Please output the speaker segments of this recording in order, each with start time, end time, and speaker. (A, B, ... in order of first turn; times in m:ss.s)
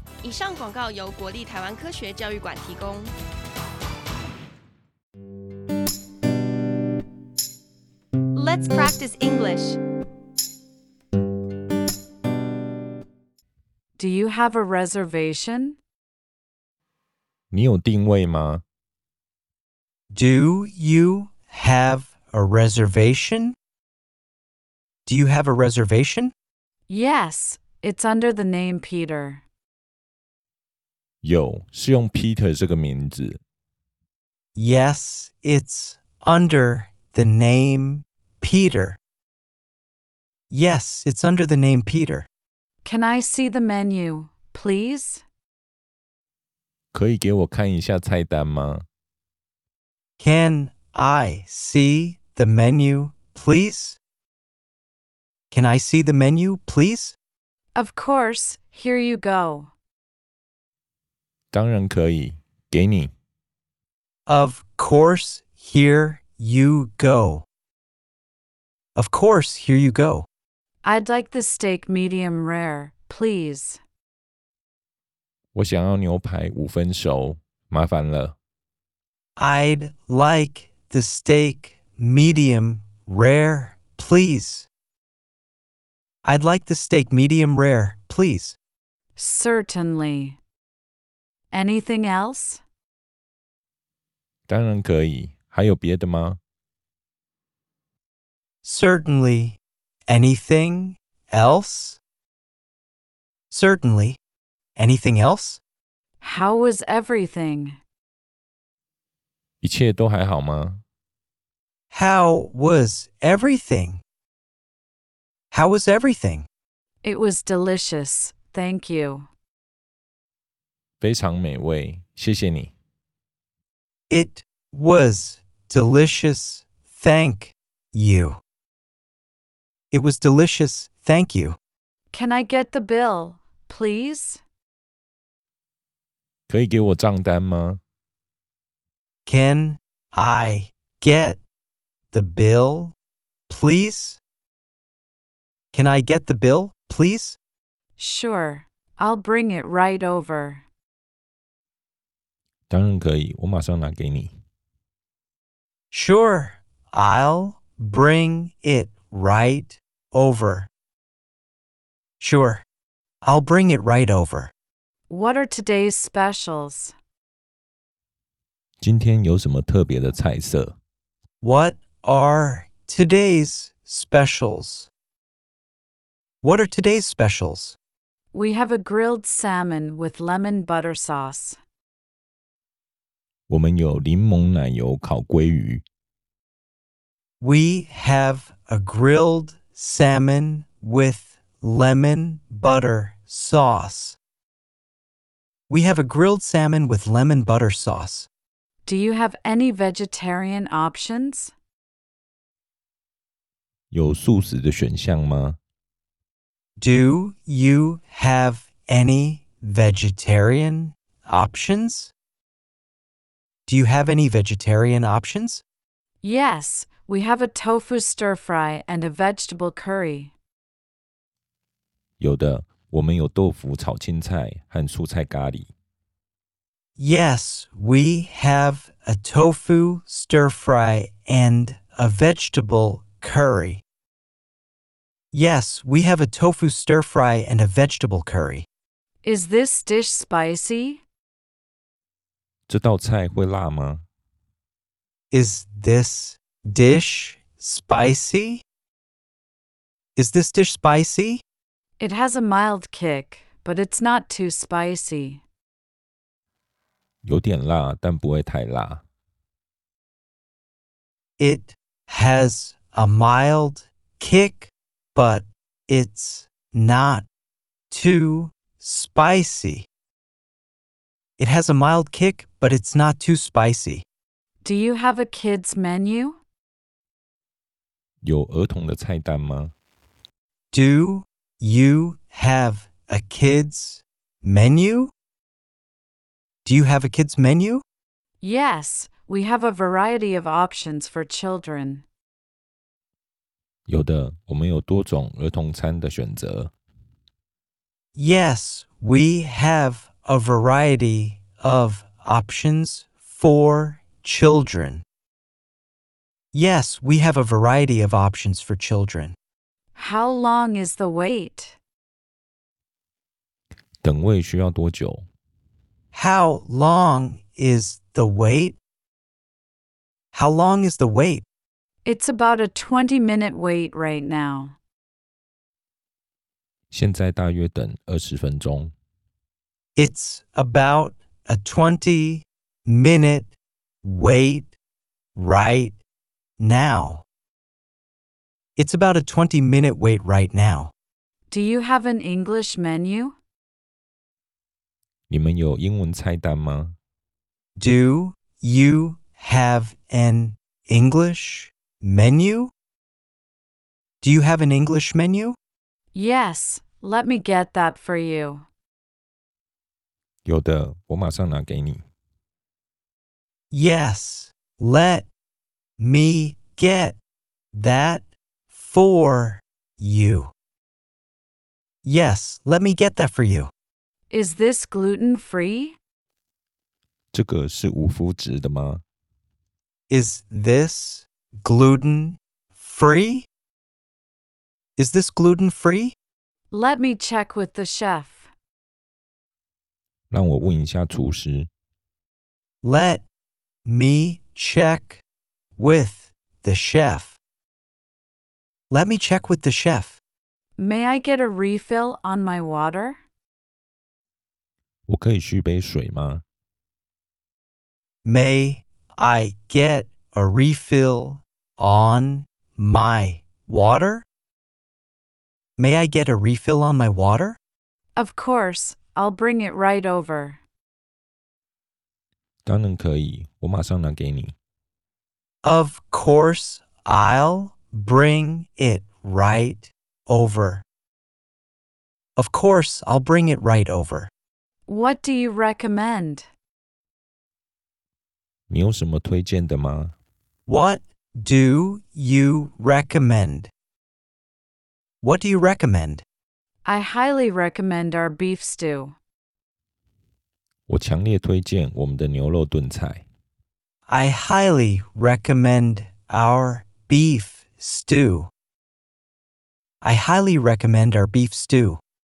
0:00.2-0:03.1 A
0:08.3-0:09.8 A
0:14.0-0:15.8 B
0:17.5-0:18.6 C
0:20.1-0:23.6 D
0:25.0-0:26.3 D
0:26.9-0:29.4 B
0:31.2-0:33.4 C
0:34.6-0:39.0 D
0:40.5-0:42.3 D
0:42.8-0:45.2 B
0:46.9-0:48.8 C
0:50.2-0:54.0 D
0:55.5-0:57.2 D
0:57.7-0:59.7 B
1:01.5-1:03.1 C
1:04.3-1:07.4 D
1:09.0-1:10.2 D
1:10.8-1:13.8 B
1:15.5-1:18.3 C
1:19.4-1:24.7 D
1:26.2-1:28.6 D
1:29.2-1:30.4 B
1:31.5-1:32.6 B
1:34.5-1:36.4 C
1:38.6-1:42.0 D
1:43.5-1:44.2 D
1:44.8-1:45.6 D
1:46.2-1:47.8 B
1:49.6-1:50.8 C
1:51.9-1:54.0 D
1:55.5-1:56.5 D
1:57.0-1:59.3 B
2:01.0-2:02.7 C
2:04.1-2:08.4 D
2:09.9-2:11.6 D
2:12.1-2:14.4 B
2:16.5-2:17.8 C
2:19.2-2:21.4 D
2:22.1-2:22.9 D
2:23.5-2:24.2 D
2:25.7-2:27.4 D
2:28.0-2:30.6 B
2:32.7-2:34.4 C
2:35.9-2:40.7 D
2:42.2-2:42.6 D
2:43.2-2:44.5 D
2:45.1-2:46.9 B
2:48.8-2:50.7 C
2:51.4-2:54.9 D
2:56.4-2:57.8 D
2:58.3-3:01.6 B
3:03.5-3:05.8 C
3:07.4-3:14.2 D
3:15.7-3:18.3 D
3:18.8-3:21.5 B
3:23.9-3:25.6 C
3:26.8-3:32.1 D
3:33.7-3:35.6 D
3:36.2-3:40.3 B
3:42.2-3:45.7 C
3:47.0-3:53.8 D
3:55.3-3:58.6 D
3:59.2-4:01.0 B
4:02.7-4:04.0 C
4:05.3-4:08.6 D
4:10.2-4:11.4 D
4:12.0-4:15.4 B
4:17.2-4:19.0 C
4:21.4-4:27.3 D
4:27.9-4:29.8 D
4:31.4-4:34.0 D
4:34.6-4:36.4 B
4:38.2-4:39.7 C
4:40.7-4:45.1 D
4:46.6-4:47.8 D
4:48.4-4:52.0 B
4:53.9-4:56.7 C
4:58.2-5:05.0 D
5:06.5-5:09.4 D
5:09.9-5:11.8 B
5:14.0-5:15.3 C
5:16.1-5:18.8 D
5:20.3-5:21.4 D
5:22.0-5:24.7 B
5:26.9-5:28.9 C
5:30.0-5:33.5 D
5:34.0-5:34.7 D
5:35.4-5:36.0 D
5:36.6-5:37.2 D
5:38.8-5:40.9 D
5:41.5-5:43.4 B
5:45.3-5:47.0 C
5:47.8-5:52.7 D
5:54.2-5:55.6 D
5:56.1-5:58.6 B
6:00.4-6:02.0 C
6:03.7-6:05.3 D
6:06.0-6:07.2 D
6:07.7-6:10.5 D
6:12.0-6:13.7 D
6:14.3-6:16.0 B
6:17.3-6:19.0 C
6:20.1-6:23.4 D
6:25.0-6:26.1 D
6:26.7-6:28.5 B
6:30.3-6:31.7 C
6:32.8-6:33.2 D
6:33.8-6:35.2 D
6:35.8-6:37.4 D
6:38.9-6:40.2 D
6:40.8-6:43.2 B
6:45.1-6:46.4 C
6:48.2-6:54.2 D
6:55.8-6:57.6 D
6:58.2-7:00.6 B
7:02.6-7:04.5 C
7:05.6-7:10.8 D
7:12.4-7:14.3 D
7:14.9-7:16.5 B
7:18.7-7:20.1 C
7:20.7-7:23.7 D
7:25.2-7:26.2 D
7:26.8-7:29.2 B
7:30.9-7:33.2 C
7:34.1-7:38.5 D
7:40.0-7:42.0 D